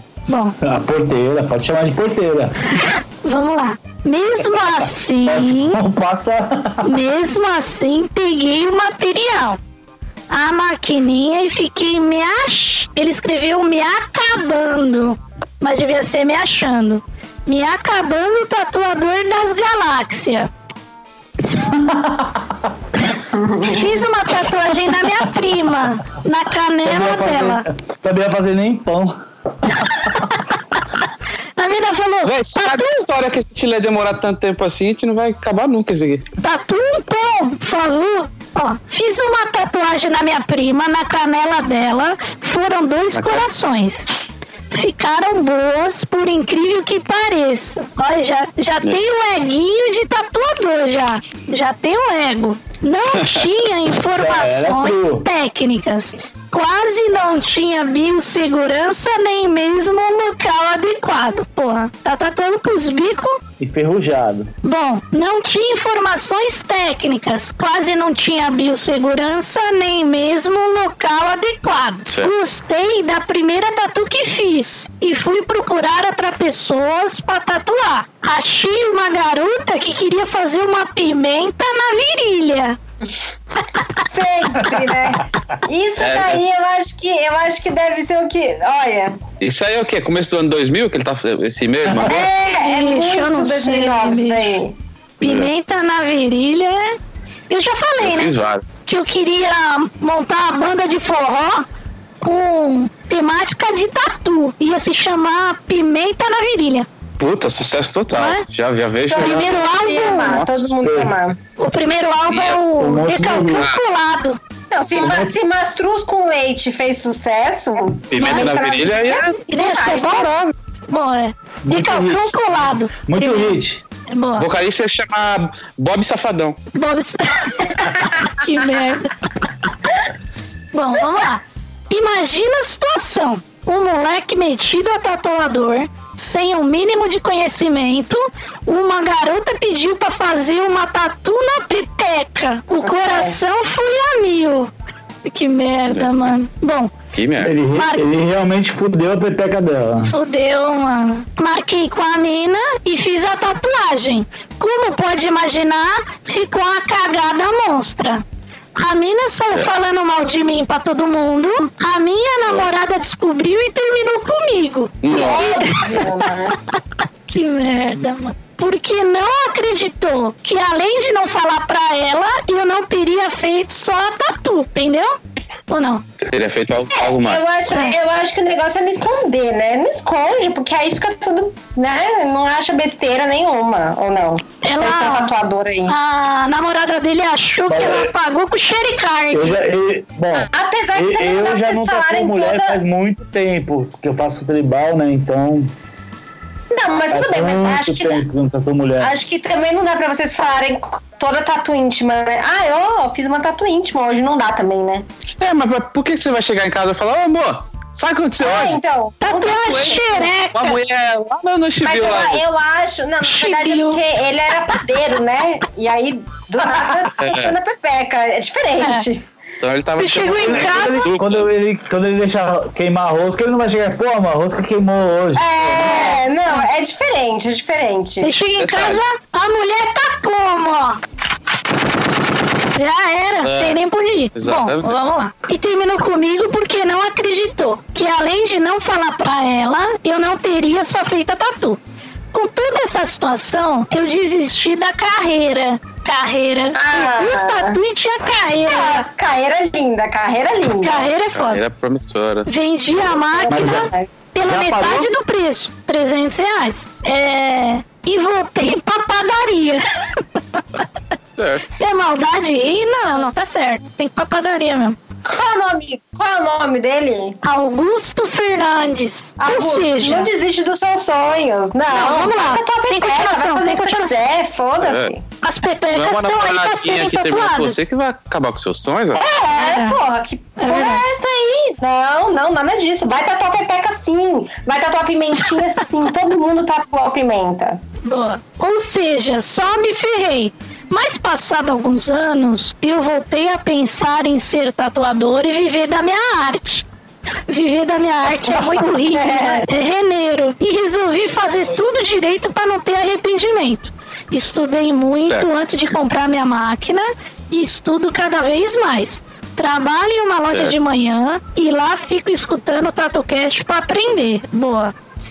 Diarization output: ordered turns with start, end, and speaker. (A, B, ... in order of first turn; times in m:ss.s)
0:00.3-0:00.6 A
0:00.6-0:02.5 B
0:02.8-0:05.8 A
0:05.2-0:07.0 B
0:06.8-0:09.6 A
0:10.3-0:20.5 A
0:21.5-0:22.5 B
0:23.3-0:24.0 C
0:23.6-0:27.6 A
0:26.8-0:29.1 B
0:29.8-0:30.4 A
0:31.6-0:33.0 A
0:32.2-0:36.3 D
0:36.4-0:44.1 A
0:43.2-0:43.5 D
0:44.7-1:03.4 A
0:53.2-0:53.4 D
0:54.1-0:55.3 B
1:03.6-1:04.5 B
1:04.6-1:22.8 A
1:24.0-1:29.2 C
1:26.0-1:26.4 D
1:29.4-1:32.3 D
1:32.0-1:34.8 C
1:32.4-1:34.4 A
1:35.2-1:37.0 A
1:35.2-1:35.5 D
1:37.5-1:38.3 A
1:38.0-1:38.6 D
1:38.9-1:41.6 A
1:42.2-1:46.9 A
1:47.2-1:49.6 D
1:48.1-1:48.4 A
1:49.1-1:51.4 C
1:49.2-1:50.4 A
1:50.2-1:50.7 D
1:50.8-1:51.2 B
1:51.6-1:54.4 A
1:52.3-1:52.6 D
1:52.8-1:53.7 B
1:54.7-2:00.5 C
1:55.0-1:55.4 B
1:58.1-1:59.4 D
1:58.2-1:58.6 A
1:59.5-2:00.3 A
2:00.9-2:04.5 A
2:01.7-2:02.4 B
2:03.1-2:03.8 B
2:04.4-2:06.6 D
2:06.7-2:09.5 A
2:10.7-2:24.7 A
2:22.8-2:23.4 C
2:25.3-2:26.9 A
2:27.1-2:27.5 D
2:27.4-2:30.1 B
2:27.7-2:28.0 A
2:30.1-2:38.2 A
2:38.8-2:45.8 A
2:45.0-2:45.8 D
2:45.1-2:46.6 C
2:47.3-2:55.2 A
2:55.7-2:56.0 A
2:56.2-2:57.7 D
2:56.9-3:06.0 C
2:57.7-2:58.0 A
3:04.6-3:05.3 A
3:05.9-3:09.6 A
3:07.7-3:08.1 B
3:09.3-3:15.7 B
3:10.5-3:12.8 C
3:16.7-3:18.2 C
3:17.1-3:19.1 B
3:19.0-3:25.1 C
3:25.4-3:28.8 D
3:28.4-3:30.3 C
3:29.2-3:30.8 A
3:29.8-3:32.4 D
3:31.8-3:39.3 C
3:33.2-3:34.0 A
3:37.2-3:37.6 D
3:39.6-3:41.5 D
3:40.0-3:41.1 A
3:40.4-3:45.4 B
3:45.4-3:48.3 C
3:45.6-3:46.2 D
3:48.2-3:51.0 A
3:48.5-3:49.0 D
3:52.7-4:01.8 A
3:53.4-3:53.8 D
3:54.4-3:55.0 D
4:02.3-4:09.0 A
4:06.8-4:07.8 C
4:08.7-4:11.1 C
4:10.8-4:11.6 A
4:11.3-4:12.5 D
4:12.5-4:19.8 A
4:13.4-4:14.1 C
4:13.5-4:13.9 B
4:14.4-4:15.1 B
4:21.4-4:21.7 D
4:21.8-4:25.0 A
4:25.2-4:27.4 C
4:27.4-4:30.3 A
4:29.4-4:35.2 C
4:31.9-4:34.2 A
4:34.8-4:35.1 D
4:35.4-4:37.8 A
4:36.0-4:39.2 D
4:39.2-4:47.8 C
4:39.6-4:40.0 A
4:40.6-4:41.0 A
4:48.0-4:56.9 A
4:57.5-5:14.9 A
4:58.4-4:59.7 C